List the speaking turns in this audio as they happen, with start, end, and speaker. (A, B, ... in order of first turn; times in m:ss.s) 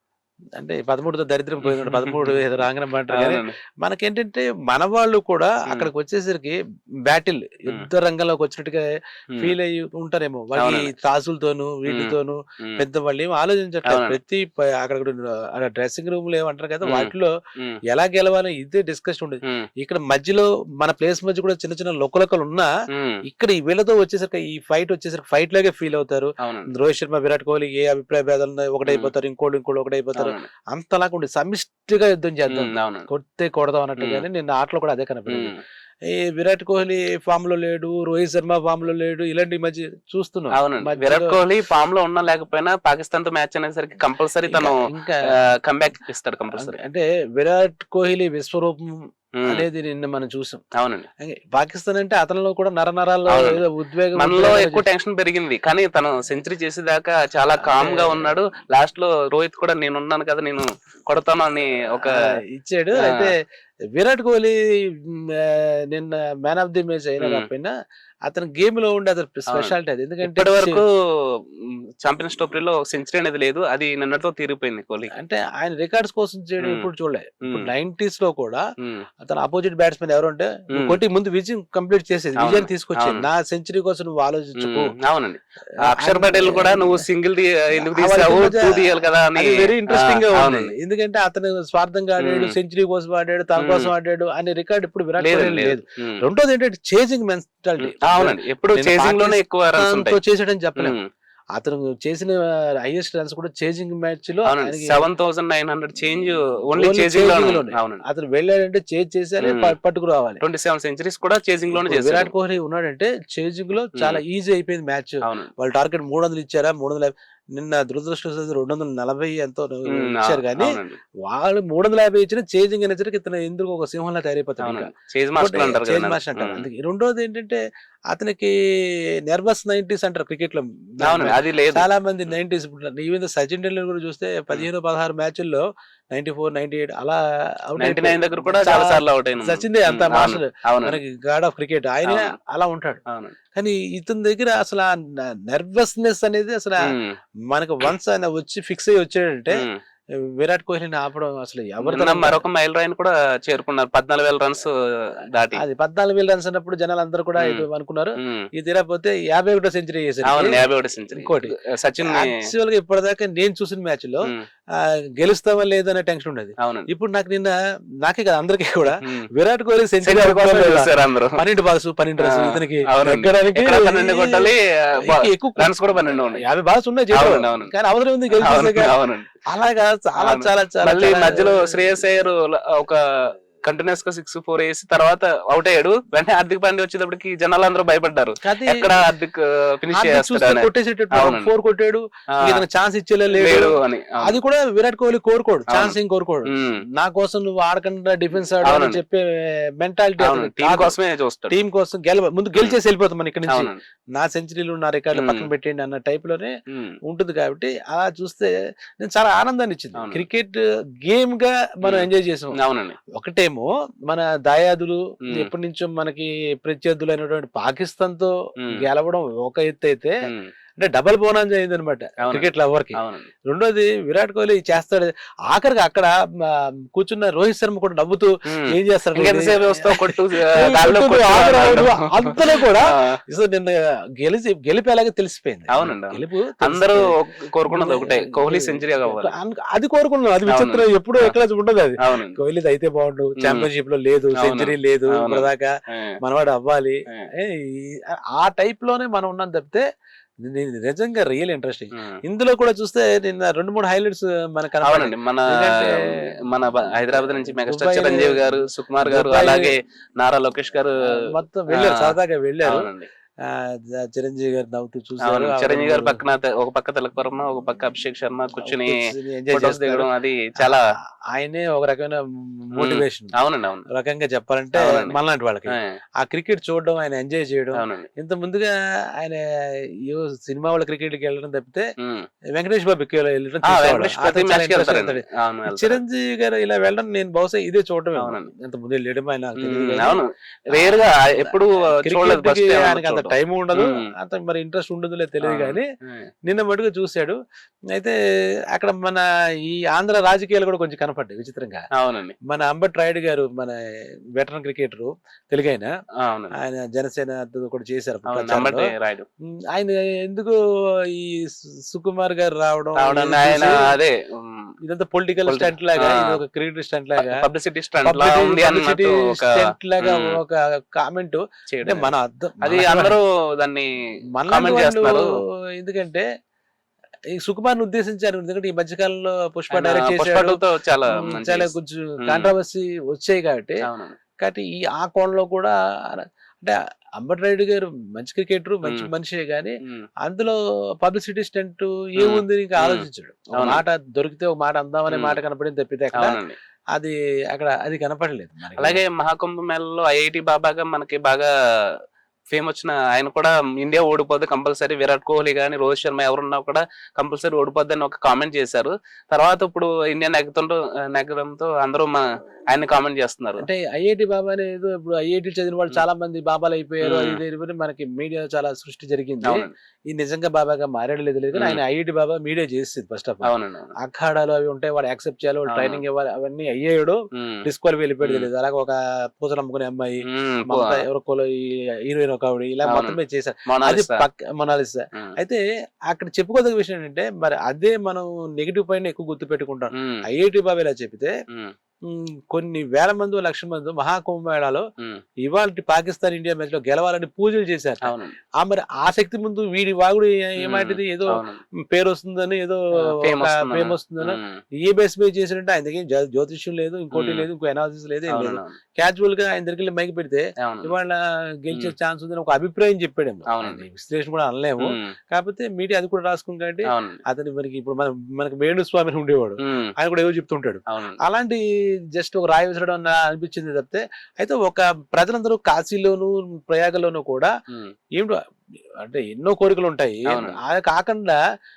0:00.6-0:08.9 A
0:01.6-0:02.6 B
0:03.1-0:03.5 B
0:09.4-0:17.3 A
0:10.6-0:10.9 B
0:11.9-0:12.8 B
0:13.8-0:14.2 B
0:16.8-0:17.8 B
0:17.9-0:22.7 A
0:22.9-0:23.2 B
0:23.2-0:35.5 A
0:26.4-0:26.7 B
0:30.2-0:30.4 B
0:32.5-0:33.1 B
0:34.0-0:34.2 B
0:35.3-0:35.6 B
0:36.1-0:41.4 A
0:40.5-0:44.7 B
0:44.5-0:45.3 A
0:45.3-0:46.8 B
0:46.6-0:50.6 A
0:50.8-0:51.1 B
0:51.2-0:54.8 A
0:53.3-0:53.6 B
0:54.2-1:02.1 B
0:57.6-0:58.4 A
1:02.0-1:03.3 A
1:03.0-1:03.3 B
1:03.9-1:07.7 A
1:07.2-1:07.5 B
1:08.2-1:10.8 A
1:09.5-1:10.9 B
1:11.6-1:15.1 B
1:15.1-1:18.6 A
1:16.6-1:16.9 B
1:19.2-1:24.9 A
1:20.7-1:21.0 B
1:22.4-1:23.2 B
1:24.6-1:30.7 B
1:25.8-1:27.0 A
1:27.7-1:41.0 A
1:32.2-1:32.5 B
1:33.6-1:33.9 B
1:35.2-1:36.2 B
1:37.8-1:40.2 B
1:40.8-1:41.0 B
1:41.5-1:45.0 A
1:44.4-1:48.0 B
1:46.8-1:50.4 A
1:49.4-1:49.7 B
1:50.4-1:52.3 B
1:51.7-2:07.6 A
1:53.9-1:54.2 B
1:55.2-1:55.5 B
1:59.9-2:01.0 B
2:04.6-2:06.7 B
2:08.1-2:08.5 A
2:09.3-2:23.0 A
2:11.0-2:11.9 B
2:17.8-2:21.0 B
2:22.0-2:22.3 B
2:23.1-2:23.4 B
2:23.5-2:26.9 A
2:27.5-2:29.7 A
2:30.2-2:32.4 A
2:31.8-2:34.7 B
2:35.3-2:35.6 B
2:35.6-2:41.5 A
2:37.4-2:37.6 B
2:40.2-2:42.4 B
2:42.0-2:44.3 A
2:44.8-2:58.9 A
2:46.6-2:46.9 B
2:49.0-2:49.3 B
2:50.0-2:51.4 B
2:52.2-2:56.4 B
2:57.1-2:57.7 B
2:58.3-2:59.3 B
2:59.5-3:01.6 A
3:00.2-3:11.5 B
3:08.4-3:08.9 A
3:09.9-3:21.0 A
3:12.3-3:12.6 B
3:13.3-3:14.4 B
3:15.7-3:16.0 B
3:16.5-3:16.8 B
3:18.4-3:19.0 B
3:20.2-3:21.6 B
3:21.5-3:26.5 A
3:23.5-3:23.8 B
3:25.1-3:25.5 B
3:26.7-3:27.0 B
3:27.0-3:32.6 A
3:30.0-3:30.2 B
3:31.8-3:33.0 B
3:33.1-3:40.2 A
3:40.8-3:57.1 A
3:42.2-3:43.3 B
3:48.5-3:53.0 B
3:55.7-3:59.3 B
3:57.7-4:09.8 A
4:00.5-4:01.4 B
4:02.0-4:02.3 B
4:03.4-4:03.7 B
4:04.4-4:06.1 B
4:10.4-4:16.3 A
4:14.8-4:21.1 B
4:17.1-4:19.7 A
4:21.1-4:22.9 A
4:21.7-4:23.1 B
4:23.4-4:26.2 A
4:25.2-4:29.0 B
4:28.6-4:30.8 A
4:29.5-4:30.8 B
4:31.3-4:33.3 A
4:32.8-4:33.8 B
4:33.9-4:39.4 A
4:34.7-4:35.2 B
4:37.7-4:38.1 B
4:40.0-4:41.8 A
4:42.0-4:42.3 B
4:42.5-4:50.2 A
4:43.6-4:46.0 B
4:48.2-4:48.5 B
4:49.6-4:54.1 B
4:50.7-4:55.8 A
4:55.4-4:56.3 B
4:56.4-4:57.4 A
4:58.7-5:01.9 A
5:01.9-5:02.3 B
5:02.4-5:03.8 A
5:04.4-5:05.9 A
5:06.2-5:06.6 B
5:06.6-5:08.9 A
5:08.3-5:09.3 B
5:09.7-5:13.9 A
5:13.0-5:14.7 B
5:14.8-5:17.4 A
5:15.4-5:16.4 B
5:17.2-5:20.4 B
5:18.0-5:23.2 A
5:21.7-5:22.1 B
5:22.6-5:23.9 B
5:24.3-5:25.2 A
5:24.5-5:25.2 B
5:25.8-5:26.2 A
5:27.4-5:30.6 A
5:29.7-5:31.7 B
5:31.1-5:33.8 A
5:32.2-5:32.5 B
5:33.8-5:34.2 B
5:34.4-5:46.4 A
5:38.8-5:39.1 B
5:42.2-5:43.8 B
5:45.1-5:45.4 B
5:46.1-5:46.6 B
5:46.9-5:49.0 A
5:48.8-5:51.5 B
5:52.5-6:03.6 B
6:03.6-6:31.3 A
6:07.0-6:07.4 B
6:09.4-6:09.7 B
6:11.5-6:11.8 B
6:13.4-6:13.9 B
6:15.7-6:16.0 B
6:17.4-6:17.6 B
6:18.2-6:18.5 B
6:20.3-6:21.0 B
6:22.9-6:23.2 B
6:23.7-6:24.2 B
6:30.0-6:30.2 B
6:32.1-6:34.8 A
6:35.4-7:01.6 A
6:38.0-6:38.3 B
6:40.6-6:41.6 B
6:43.0-6:44.6 B
6:47.1-6:47.5 B
6:48.3-6:48.8 B
6:50.6-6:50.9 B
6:53.5-6:53.8 B
6:56.9-6:57.2 B
6:59.6-6:59.9 B
7:00.9-7:01.2 B
7:02.1-7:07.5 A
7:09.0-7:11.4 A
7:10.3-7:10.6 B